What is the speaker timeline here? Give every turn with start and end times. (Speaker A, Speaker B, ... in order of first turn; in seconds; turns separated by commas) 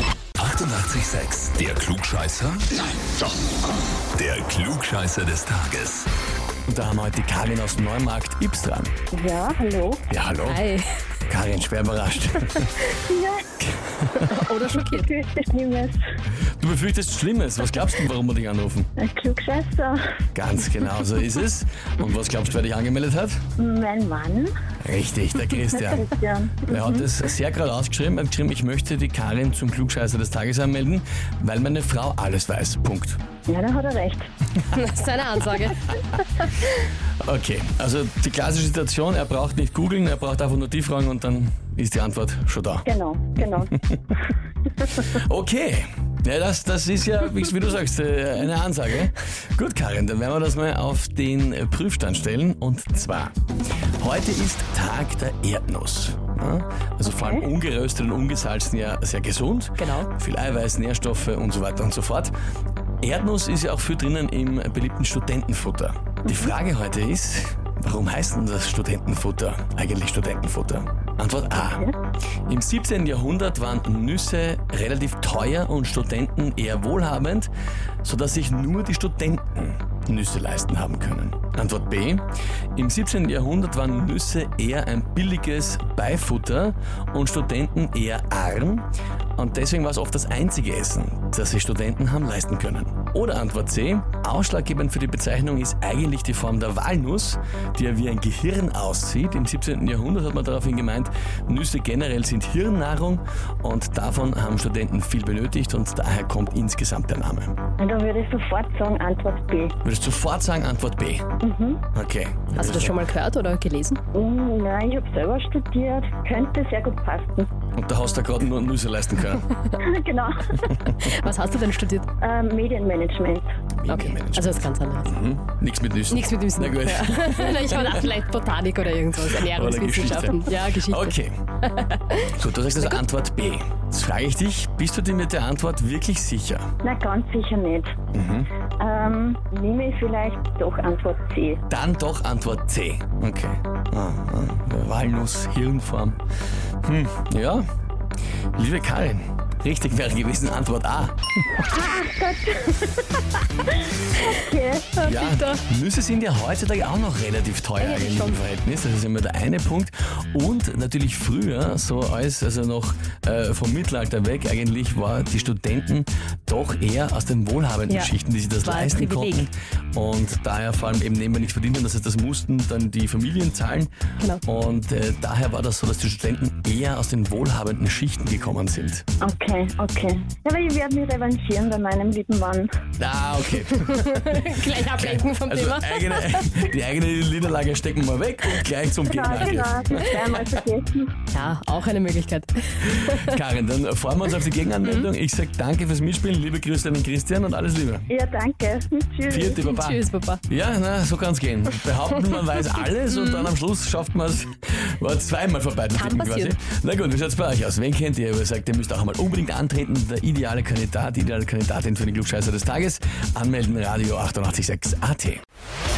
Speaker A: 0.4-3.3, Speaker A: 4.2-6.1, Speaker B: 6.7-8.9, Speaker C: 9.1-10.1, Speaker B: 10.1-10.6, Speaker D: 10.4-10.9, Speaker B: 11.3-12.9, Speaker C: 12.9-13.5, Speaker B: 13.6-14.2, Speaker D: 14.2-15.1, Speaker C: 14.6-16.0, Speaker B: 16.5-18.9, Speaker C: 19.0-20.0, Speaker B: 20.3-23.4, Speaker C: 23.6-24.5, Speaker B: 24.8-26.1, Speaker C: 25.8-27.0, Speaker B: 26.7-33.2, Speaker C: 33.5-34.3, Speaker D: 34.7-36.2, Speaker B: 37.2-42.9, Speaker C: 42.8-43.7, Speaker B: 44.9-53.3, Speaker B: 54.0-62.3, Speaker C: 57.1-57.4, Speaker D: 59.8-60.1, Speaker B: 63.0-71.9, Speaker C: 71.6-71.9, Speaker B: 72.5-77.5, Speaker B: 78.0-88.8, Speaker B: 89.4-107.5, Speaker C: 107.8-109.8, Speaker B: 109.8-111.3, Speaker C: 111.4-111.8, Speaker B: 111.9-113.0, Speaker D: 112.5-114.0, Speaker C: 114.1-117.5, Speaker B: 117.7-119.5, Speaker C: 119.8-120.8, Speaker D: 121.0-122.1, Speaker C: 122.2-123.5, Speaker B: 123.7-128.1, Speaker D: 123.9-125.1, Speaker D: 126.1-133.0, Speaker B: 129.2-131.4, Speaker B: 132.2-136.7, Speaker C: 136.8-137.9, Speaker B: 138.1-138.5, Speaker C: 138.8-141.6, Speaker B: 141.7-146.2, Speaker B: 146.8-147.6, Speaker B: 148.5-151.7, Speaker C: 151.6-154.9, Speaker D: 155.0-155.6, Speaker B: 155.0-173.9, Speaker D: 157.8-158.4, Speaker D: 168.6-169.4, Speaker B: 174.4-179.0, Speaker C: 179.2-182.7, Speaker B: 183.0-190.1, Speaker D: 183.8-186.6, Speaker C: 189.0-191.1, Speaker D: 191.3-193.4, Speaker B: 192.8-198.1, Speaker D: 194.8-195.1, Speaker C: 198.1-199.6, Speaker B: 199.3-215.4, Speaker D: 199.6-200.4, Speaker D: 203.1-203.5, Speaker D: 205.9-206.5